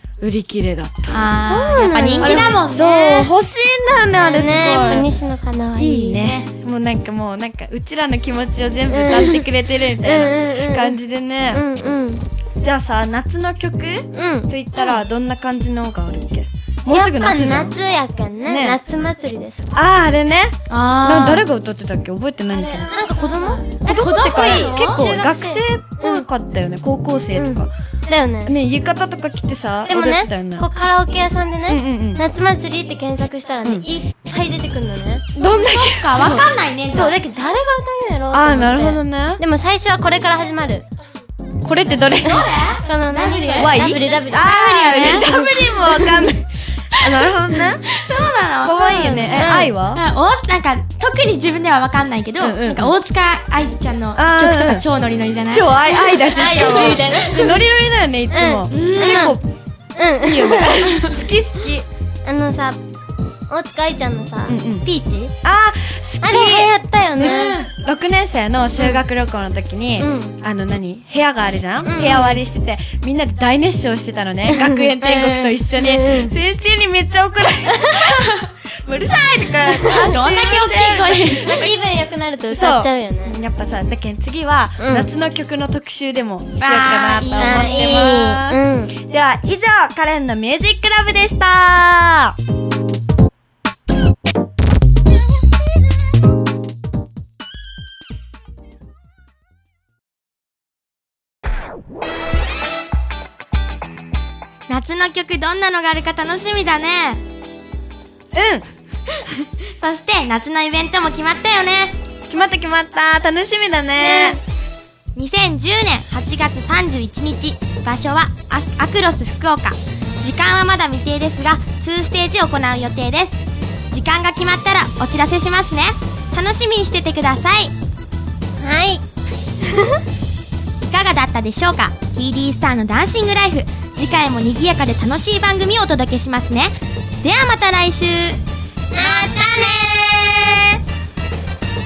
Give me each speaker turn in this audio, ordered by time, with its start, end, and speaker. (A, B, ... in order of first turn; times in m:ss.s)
0:00.2-0:05.1 A
0:01.1-0:03.3 B
0:01.4-0:02.6 C
0:04.2-0:06.3 C
0:05.8-0:11.6 A
0:06.2-0:06.5 B
0:08.9-0:09.4 C
0:10.0-0:11.0 C
0:11.5-0:12.2 C
0:12.6-0:17.7 A
0:14.1-0:15.0 C
0:16.9-0:19.7 C
0:18.5-0:18.8 A
0:19.7-0:22.9 A
0:20.7-0:21.5 B
0:22.5-0:26.2 C
0:23.3-0:25.0 B
0:23.8-0:27.7 A
0:27.4-0:28.5 C
0:28.4-0:30.6 A
0:29.9-0:35.2 C
0:31.7-0:32.2 A
0:35.4-0:36.4 A
0:35.4-0:37.2 B
0:36.9-0:40.9 C
0:38.3-0:39.4 A
0:41.6-0:42.5 A
0:42.1-0:46.2 B
0:42.3-0:45.5 C
0:43.6-0:47.9 A
0:47.0-0:55.8 B
0:48.6-0:50.0 A
0:49.3-0:49.7 C
0:52.4-0:53.0 A
0:54.2-0:54.8 A
0:55.5-0:59.4 A
0:55.9-0:57.6 C
0:56.3-0:57.1 B
0:58.3-0:59.4 C
0:58.7-0:59.4 B
1:00.0-1:00.8 C
1:00.2-1:01.9 A
1:02.2-1:02.8 C
1:03.5-1:05.3 C
1:04.5-1:04.9 A
1:05.4-1:21.7 A
1:06.2-1:07.6 C
1:07.2-1:07.7 B
1:10.0-1:10.4 C
1:11.8-1:12.4 C
1:14.5-1:16.4 C
1:18.0-1:18.5 B
1:19.6-1:21.6 B
1:21.4-1:23.4 C
1:22.5-1:32.4 A
1:24.8-1:25.1 C
1:26.6-1:28.0 B
1:27.3-1:29.0 C
1:44.7-1:47.2 B
1:48.3-1:48.6 A
1:49.4-1:52.0 B
1:52.3-1:54.4 A
1:54.0-1:54.4 B
1:55.2-2:07.7 B
2:08.6-2:09.0 C
2:09.6-2:10.0 C
2:10.9-2:18.4 B
2:18.9-2:20.8 C